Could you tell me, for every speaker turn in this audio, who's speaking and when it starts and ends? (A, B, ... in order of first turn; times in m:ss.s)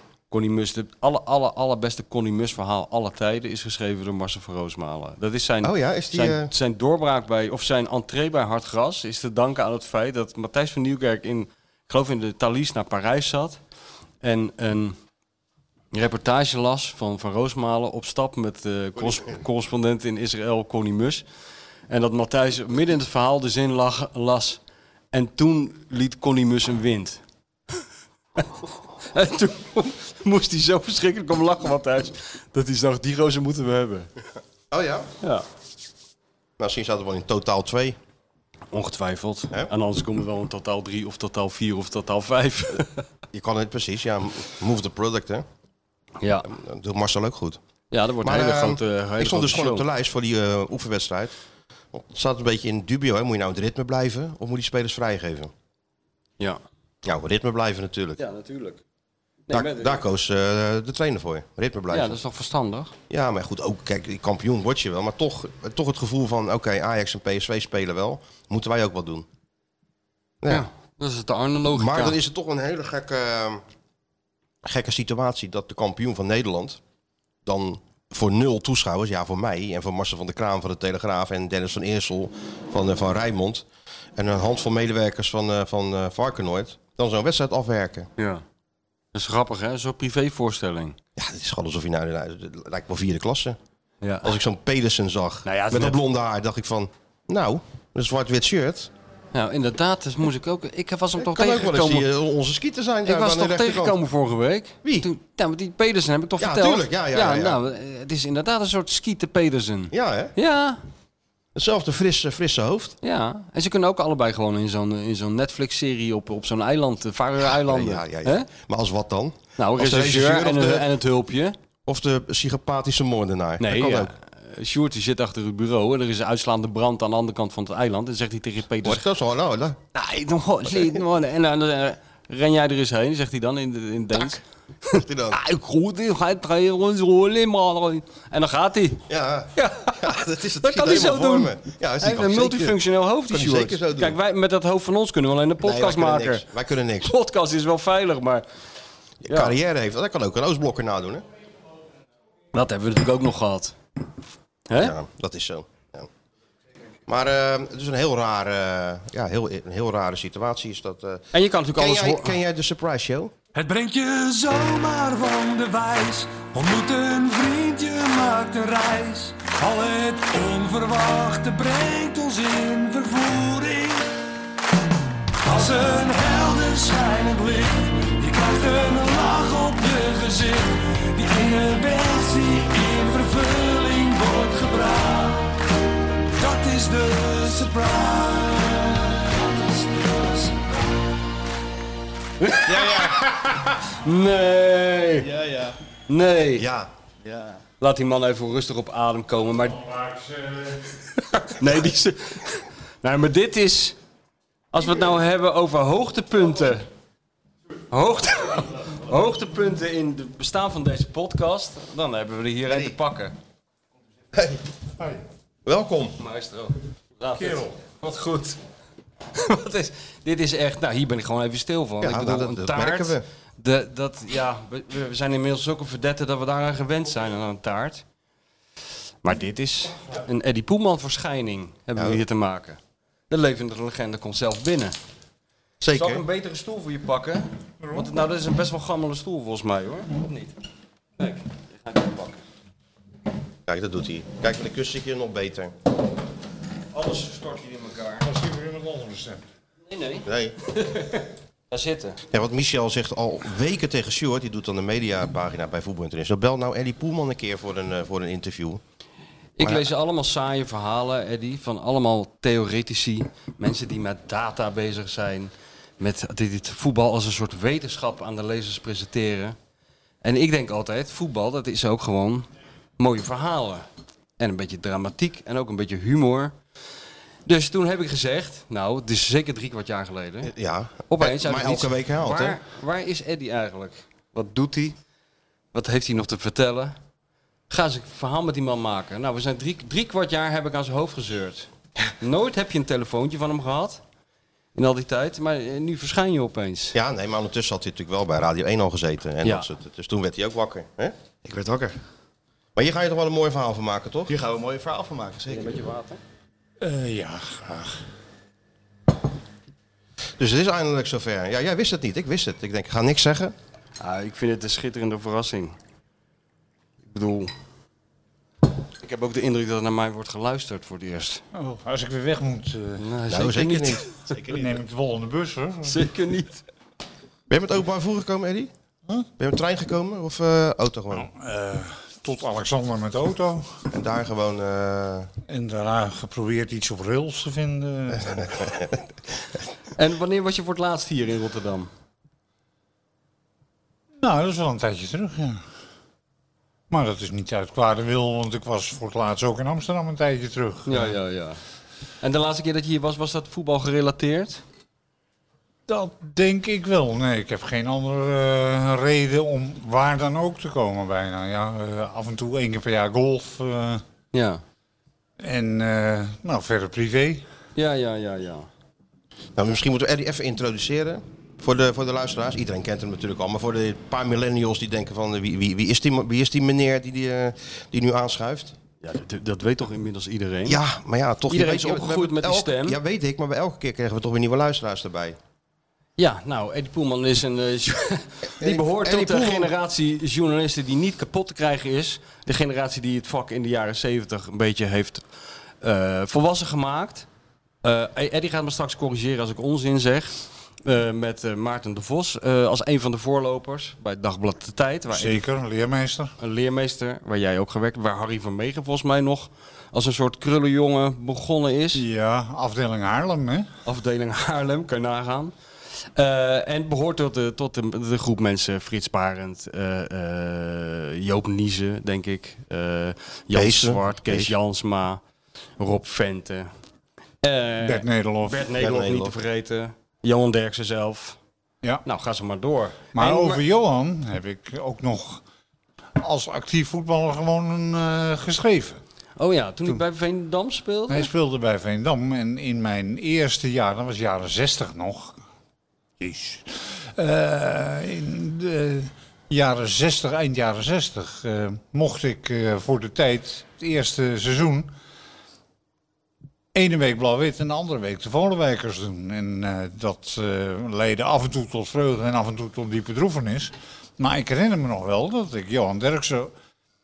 0:00.3-0:13.6 A
0:05.6-0:06.5 B
0:14.2-0:15.0 A
0:15.9-0:21.2 A
0:21.9-0:24.6 A
0:25.1-0:27.2 A
0:28.4-0:34.1 A
0:34.7-0:35.1 B
0:36.6-0:38.0 B
0:38.7-0:43.0 A
0:43.3-0:45.4 B
0:46.2-0:46.5 A
0:46.4-0:47.6 B
0:47.9-0:49.9 A
0:48.2-0:51.3 B
0:51.9-0:55.5 B
0:57.0-0:58.2 B
0:58.2-0:58.8 A
0:59.5-1:00.0 A
0:59.5-1:02.2 B
1:01.9-1:02.9 A
1:03.1-1:09.2 B
1:10.5-1:12.2 A
1:11.7-1:13.6 B
1:14.6-1:16.8 B
1:17.4-1:28.1 B
1:28.2-1:28.4 A
1:29.1-1:31.0 A
1:31.2-1:33.6 B
1:34.0-1:34.4 A
1:34.2-1:38.9 B
1:35.4-1:36.0 A
1:39.3-1:42.0 A
1:41.2-1:44.0 B
1:43.0-1:50.8 A
1:46.4-1:47.6 B
1:49.9-1:50.3 B
1:51.5-1:52.9 B
1:53.0-1:58.5 A
1:57.5-2:00.9 B
1:59.6-2:01.5 A
2:01.8-2:04.1 B
2:03.6-2:09.0 A
2:08.8-2:09.8 B
2:09.9-2:19.0 A
2:10.7-2:11.0 B
2:14.9-2:15.4 B
2:19.1-2:22.8 B
2:19.5-2:26.4 A
2:23.3-2:24.2 B
2:25.6-2:27.1 B
2:27.0-2:28.4 A
2:29.2-2:31.2 B
2:29.3-2:29.5 A
2:32.5-2:33.8 A
2:34.7-2:34.9 A
2:34.8-2:36.1 B
2:37.1-2:43.3 B
2:41.3-2:42.4 A
2:43.5-2:54.0 C
2:55.4-3:05.6 C
3:06.4-3:10.6 C
3:12.4-3:13.0 A
3:12.6-3:13.3 D
3:14.0-3:15.3 A
3:15.2-3:15.8 D
3:16.1-3:16.7 A
3:16.6-3:16.9 B
3:17.2-3:17.6 D
3:17.8-3:19.9 A
3:20.0-3:20.8 E
3:21.4-3:24.0 A
3:24.7-3:26.8 A
3:27.9-3:33.3 A
3:34.3-3:34.6 B
3:35.6-3:36.2 B
3:36.2-3:38.6 A
3:39.3-3:48.0 A
3:42.0-3:43.2 B
3:49.2-3:52.8 A
3:52.0-3:52.2 B
3:53.3-3:54.9 A
3:55.8-3:56.2 B
3:55.9-4:00.5 A
4:01.2-4:02.4 A
4:03.6-4:05.7 B
4:06.9-4:08.2 A
4:08.2-4:09.4 E
4:09.9-4:12.2 A
4:10.2-4:10.5 B
4:12.3-4:18.8 B
4:19.6-4:29.6 A
4:19.6-4:19.9 B
4:30.2-4:32.5 A
4:33.0-4:33.8 A
4:34.4-4:36.6 A
4:37.4-4:40.5 A
4:40.4-4:42.6 B
4:41.1-4:45.0 A
4:45.7-4:47.0 A
4:47.7-4:54.0 A
4:54.7-4:57.0 A
4:56.9-5:01.9 B
5:02.8-5:04.3 B
5:04.3-5:05.8 D
5:05.5-5:06.2 A
5:06.8-5:08.0 E
5:10.4-5:13.5 B
5:14.0-5:15.8 A
5:17.0-5:17.5 A
5:19.0-5:21.4 A
5:21.5-5:23.0 E
5:23.0-5:24.3 A
5:23.3-5:24.0 B
5:24.3-5:24.6 D
5:24.5-5:26.1 E
5:25.8-5:26.6 A
5:27.5-5:28.7 B
5:29.4-5:31.3 B
5:31.1-5:33.8 E
5:33.9-5:35.3 B
5:35.5-5:38.7 E
5:40.0-5:41.9 A
5:44.2-5:45.6 E
5:46.9-5:51.1 E
5:50.9-5:51.6 A
5:52.2-5:54.6 A
5:55.9-6:04.0 E
6:04.3-6:04.6 A
6:05.4-6:07.4 E
6:07.7-6:08.7 A
6:09.6-6:18.7 B
6:19.0-6:20.8 A
6:20.6-6:25.4 B
6:21.5-6:23.0 A
6:26.2-6:35.2 A
6:28.6-6:29.7 B
6:35.8-6:37.3 A
6:37.8-6:45.4 A
6:45.1-6:46.3 E
6:46.4-6:52.0 A
6:51.9-6:53.7 E
6:53.8-6:55.5 A
6:56.1-7:05.2 A
7:03.5-7:04.5 B
7:05.8-7:06.7 A
7:07.4-7:11.4 A
7:07.8-7:08.6 E
7:08.8-7:09.4 B
7:12.0-7:13.6 A
7:13.1-7:15.4 E
7:16.2-7:19.0 E
7:19.4-7:21.3 A
7:21.1-7:25.4 E
7:26.2-7:34.9 E
7:36.7-7:46.5 E